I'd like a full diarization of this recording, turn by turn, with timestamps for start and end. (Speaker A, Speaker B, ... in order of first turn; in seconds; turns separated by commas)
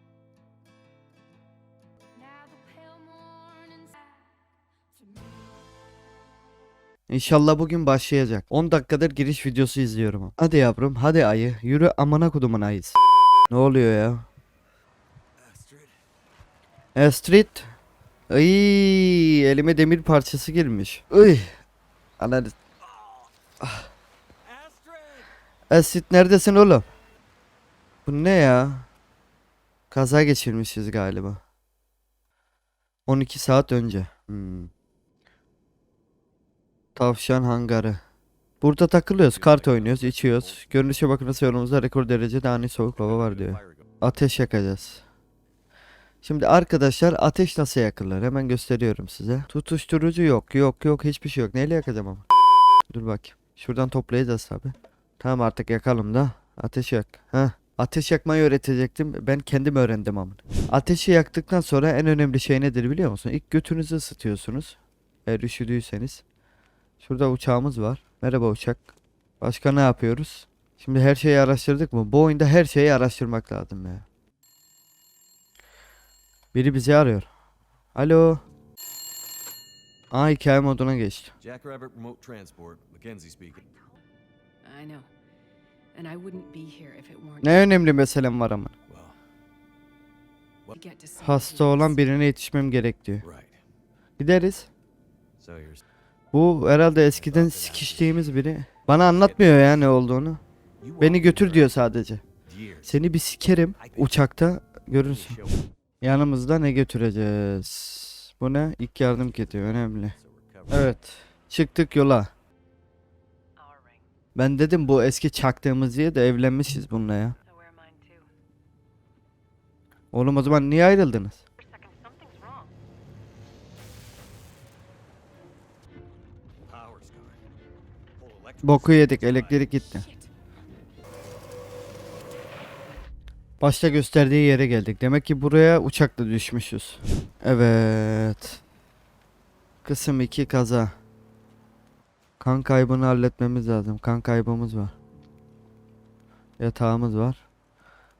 Speaker A: 2.2-4.0, Speaker B: 7.1-13.0, Speaker B: 13.5-14.3, Speaker C: 15.4-16.0, Speaker B: 16.9-17.7, Speaker B: 18.3-21.5, Speaker B: 22.2-22.6, Speaker B: 23.6-23.9, Speaker C: 24.5-25.3, Speaker B: 25.7-26.9, Speaker B: 28.1-28.9, Speaker B: 29.9-31.4, Speaker B: 33.0-34.7, Speaker B: 37.0-38.0, Speaker B: 38.6-45.0, Speaker C: 39.3-40.8, Speaker C: 43.0-43.8, Speaker B: 46.2-52.2, Speaker B: 52.9-66.2, Speaker B: 67.0-68.8, Speaker B: 69.4-74.0, Speaker B: 76.5-77.3, Speaker B: 77.9-78.4, Speaker B: 80.1-81.3, Speaker C: 81.4-83.8, Speaker A: 84.6-85.1, Speaker A: 85.9-87.7, Speaker B: 87.4-88.7, Speaker C: 88.9-89.2, Speaker A: 90.7-92.0, Speaker B: 91.2-93.2, Speaker C: 93.2-93.6, Speaker B: 94.2-94.7, Speaker C: 95.4-95.8, Speaker B: 96.3-100.4, Speaker C: 97.1-98.3, Speaker C: 99.2-99.8, Speaker C: 100.8-101.7, Speaker B: 101.0-102.2, Speaker C: 102.5-103.0, Speaker B: 102.8-105.4, Speaker C: 103.8-104.1, Speaker C: 105.0-105.7, Speaker B: 106.0-110.2, Speaker C: 109.2-111.0, Speaker B: 110.7-112.3, Speaker A: 113.6-114.0, Speaker B: 114.3-117.3, Speaker A: 117.5-118.3, Speaker B: 120.1-121.4, Speaker A: 121.6-122.7, Speaker C: 126.7-127.4, Speaker C: 128.2-129.7, Speaker B: 128.6-130.1, Speaker B: 133.6-138.6, Speaker B: 139.8-140.9, Speaker B: 142.4-144.9, Speaker B: 146.6-147.4